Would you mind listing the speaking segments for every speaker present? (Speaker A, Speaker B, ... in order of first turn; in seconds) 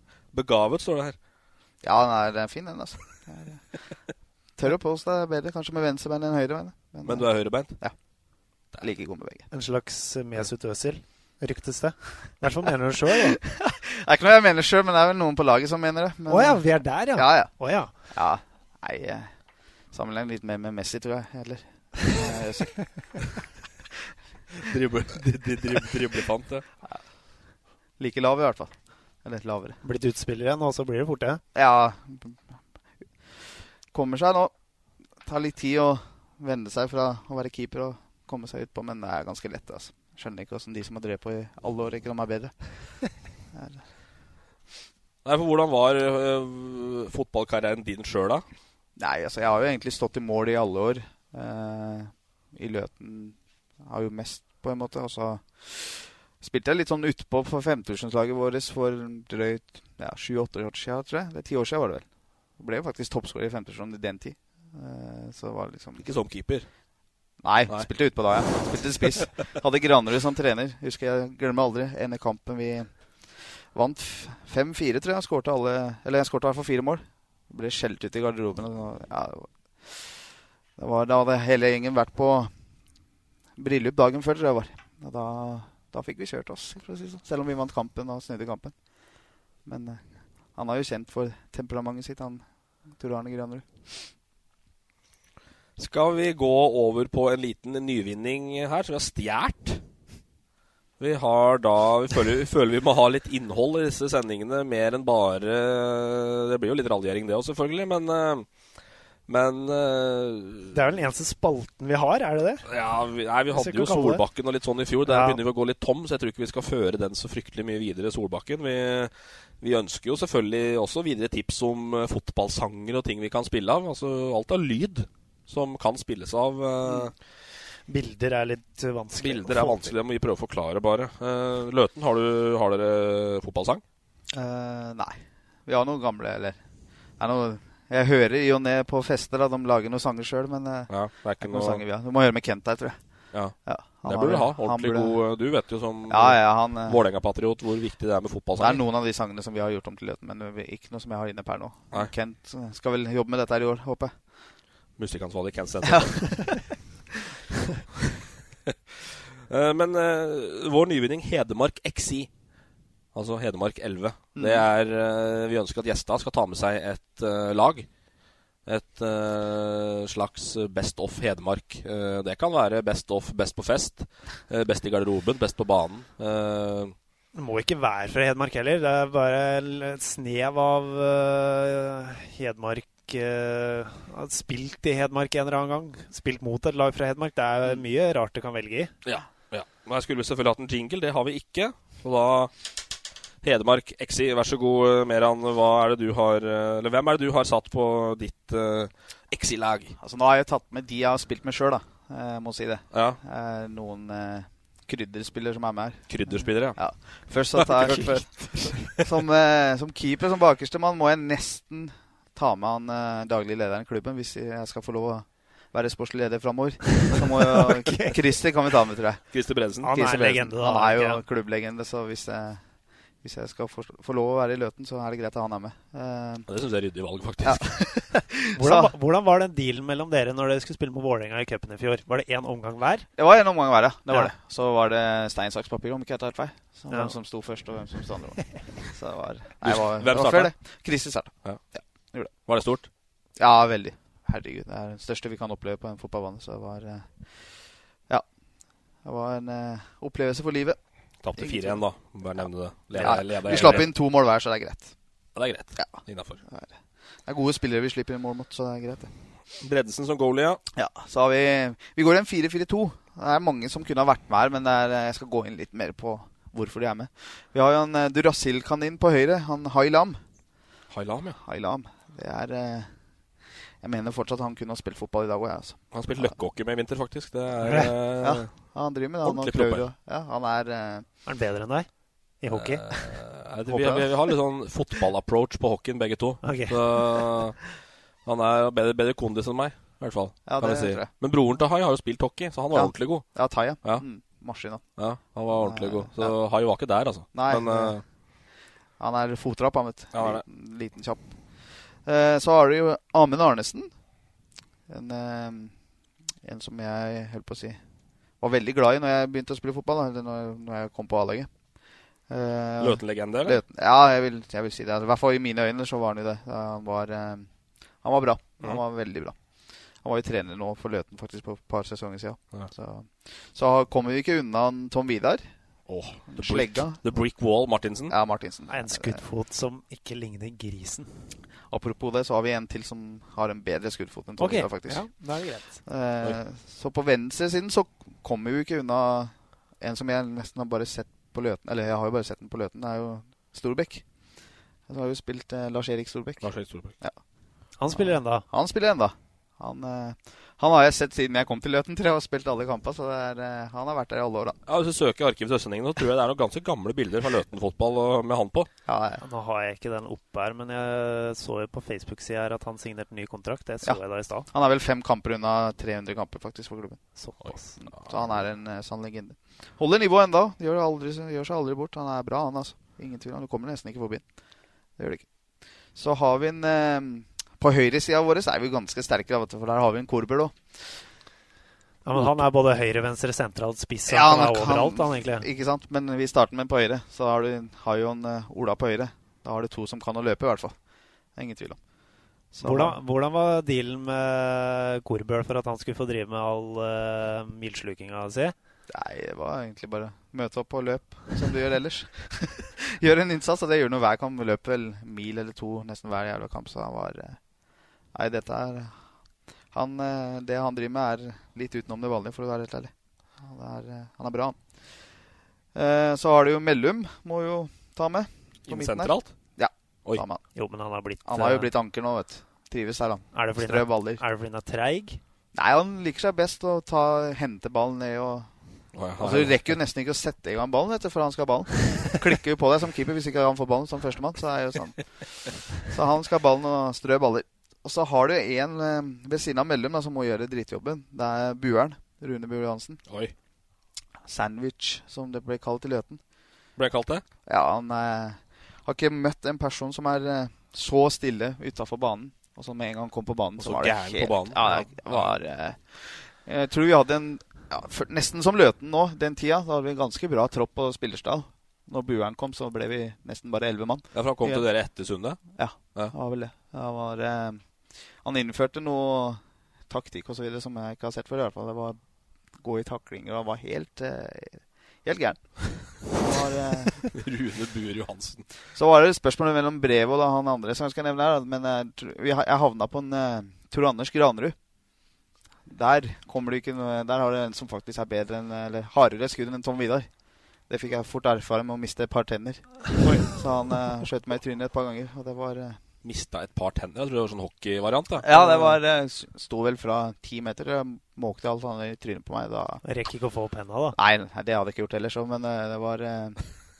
Speaker A: 0.3-1.1, 7.0-7.8, 24.6-26.6, 45.2-48.4, 66.0-66.7, 95.8-99.8, 101.0-108.5, 109.3-110.8, 112.7-127.1, 129.2-133.8, 140.9-141.8, 143.3-148.8, 155.0-156.5, 159.5-162.3, 163.1-167.9, 168.7-176.9, 189.0-192.5, 193.4-199.9, 202.9-203.2, 206.1-207.0, 207.5-209.0, 219.3-219.9, 226.5-227.8, 239.6-240.5, 242.4-242.9, 251.2-253.9, 255.3-256.4, 259.6-260.6, 270.9-271.4, 275.9-278.7, 279.2-279.9, 282.5-294.0, 295.0-298.0, 300.1-300.4, 312.8-313.6, 325.9-328.1, 346.4-346.9, 354.7-358.7, 367.4-368.4, 418.7-419.3, 428.9-429.8, 443.1-443.3, 446.8-447.2, 453.6-455.3, 464.1-466.1, 477.1-478.4, 496.0-498.3
Speaker B: 1.8-3.8, 4.6-7.9, 8.8-9.4, 13.5-19.3, 19.9-23.2, 28.0-29.8, 31.5-32.4, 33.9-34.5, 35.2-43.8, 49.0-66.1, 67.4-80.2, 80.8-82.5, 83.6-88.7, 89.6-94.0, 134.3-136.6, 137.2-140.9, 141.4-143.0, 143.7-145.1, 146.1-147.0, 148.6-154.1, 155.9-156.6, 164.3-164.7, 200.0-206.1, 206.7-219.2, 219.9-222.6, 223.2-226.5, 227.4-228.9, 233.2-242.3, 243.4-247.3, 249.0-250.8, 251.4-251.8, 252.9-254.9, 255.8-256.7, 257.2-259.1, 260.7-270.2, 271.4-272.9, 273.8-276.3, 278.2-281.1, 283.7-284.1, 290.4-291.1, 292.7-294.8, 295.5-296.3, 297.3-298.0, 299.0-303.9, 304.9-305.7, 306.4-307.8, 308.4-311.5, 312.3-317.5, 318.0-319.4, 320.0-325.5, 326.3-327.0, 328.1-329.2, 331.7-335.1, 335.8-344.0, 344.9-346.5, 347.9-354.6, 358.9-359.2, 363.8-367.0, 367.8-374.2, 375.0-375.2, 375.9-381.0, 384.1-390.7, 391.3-391.8, 392.5-393.0, 398.9-407.4, 408.1-408.9, 409.7-414.6, 415.7-420.4, 421.2-424.2, 425.5-428.5, 429.2-443.0, 444.3-446.2, 447.4-464.6, 465.5-472.0, 472.6-477.1, 478.7-484.6, 485.7-490.1, 490.7-495.8, 498.2-502.8, 503.9-506.4
Speaker C: 9.5-13.4, 16.3-17.9, 29.8-31.4, 110.7-112.6, 113.5-114.2, 115.0-115.4, 127.9-129.9, 177.3-188.9, 217.9-218.1, 219.8-221.2, 228.5-233.1, 281.2-281.9, 282.4-283.0, 286.4-287.2, 328.7-331.1, 334.4-335.8, 347.8-348.4, 359.2-364.5, 367.2-367.8, 382.0-385.4, 392.6-398.5, 420.5-421.7, 423.3-425.2, 493.0-493.4, 498.3-498.8, 502.8-504.0